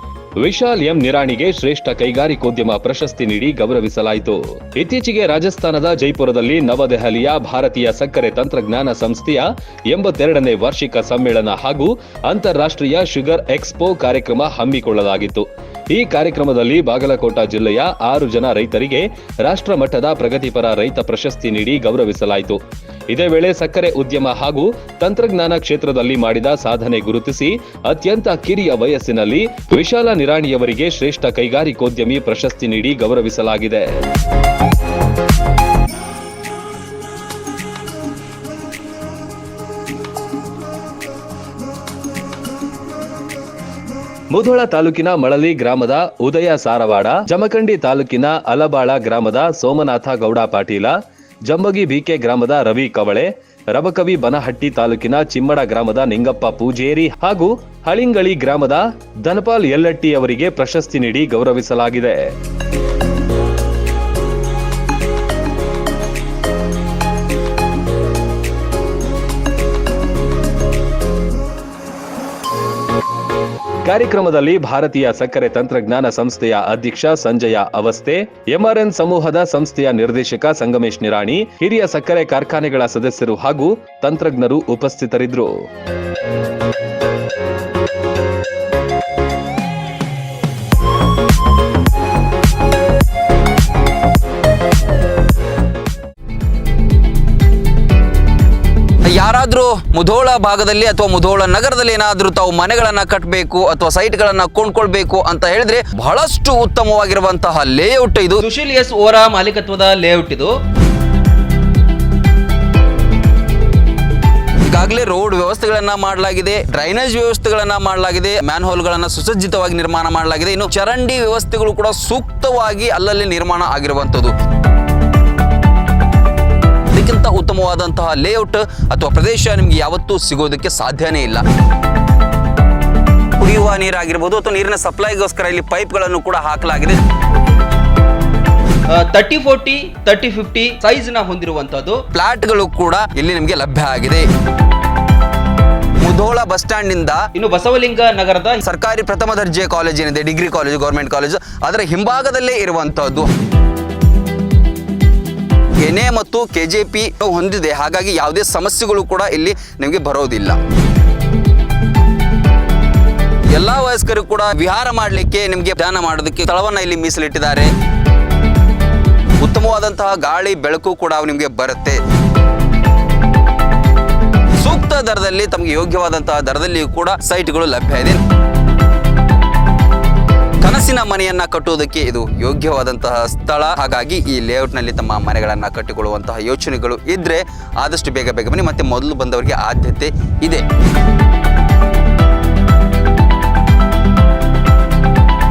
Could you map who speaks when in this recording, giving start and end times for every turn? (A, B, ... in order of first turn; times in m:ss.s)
0:00.4-0:22.6 A
0:23.1-0:34.0 A
0:44.3-0:50.9 A
0:51.5-1:02.2 A
1:13.8-1:25.5 A
1:39.1-1:48.4 B
1:48.4-1:50.5 C
1:54.7-2:04.3 B
2:06.9-2:11.4 B
2:13.4-2:17.0 B
2:18.9-2:22.0 C
2:22.1-2:24.3 B
2:26.0-2:27.3 B
2:27.3-2:28.6 C
2:28.6-2:33.3 B
2:35.8-2:40.6 B
2:43.5-2:47.7 B
2:49.4-2:52.0 B
2:54.6-2:58.2 B
3:00.6-3:10.6 B